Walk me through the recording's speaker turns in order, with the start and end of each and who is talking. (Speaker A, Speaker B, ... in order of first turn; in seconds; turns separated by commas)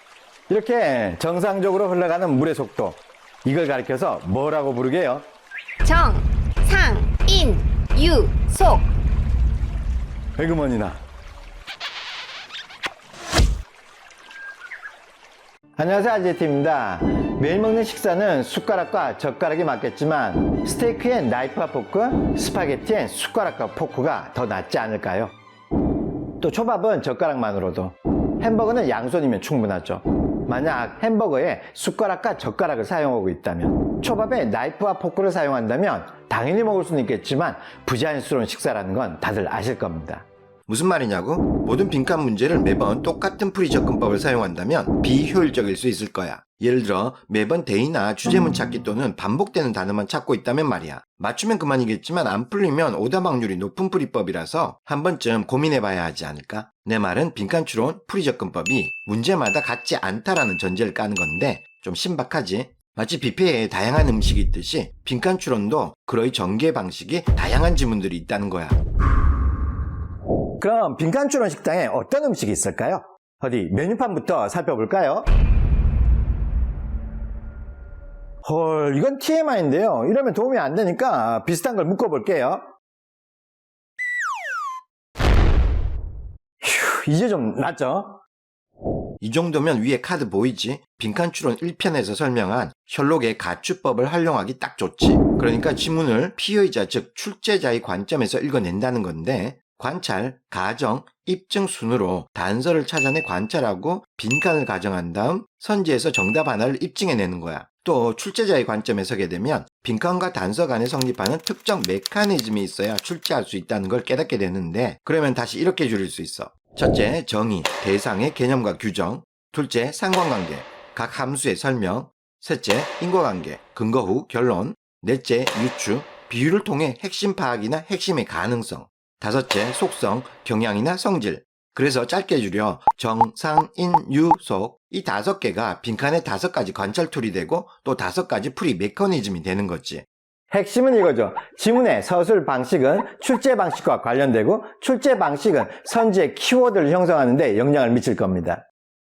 Speaker A: 0.5-5.2, Speaker B: 5.8-8.8, Speaker A: 10.4-11.0, Speaker A: 15.8-25.3, Speaker A: 26.4-40.2, Speaker C: 40.7-68.8, Speaker A: 70.6-75.3, Speaker A: 78.4-82.6, Speaker A: 86.6-88.2, Speaker C: 89.2-140.0, Speaker A: 140.5-148.6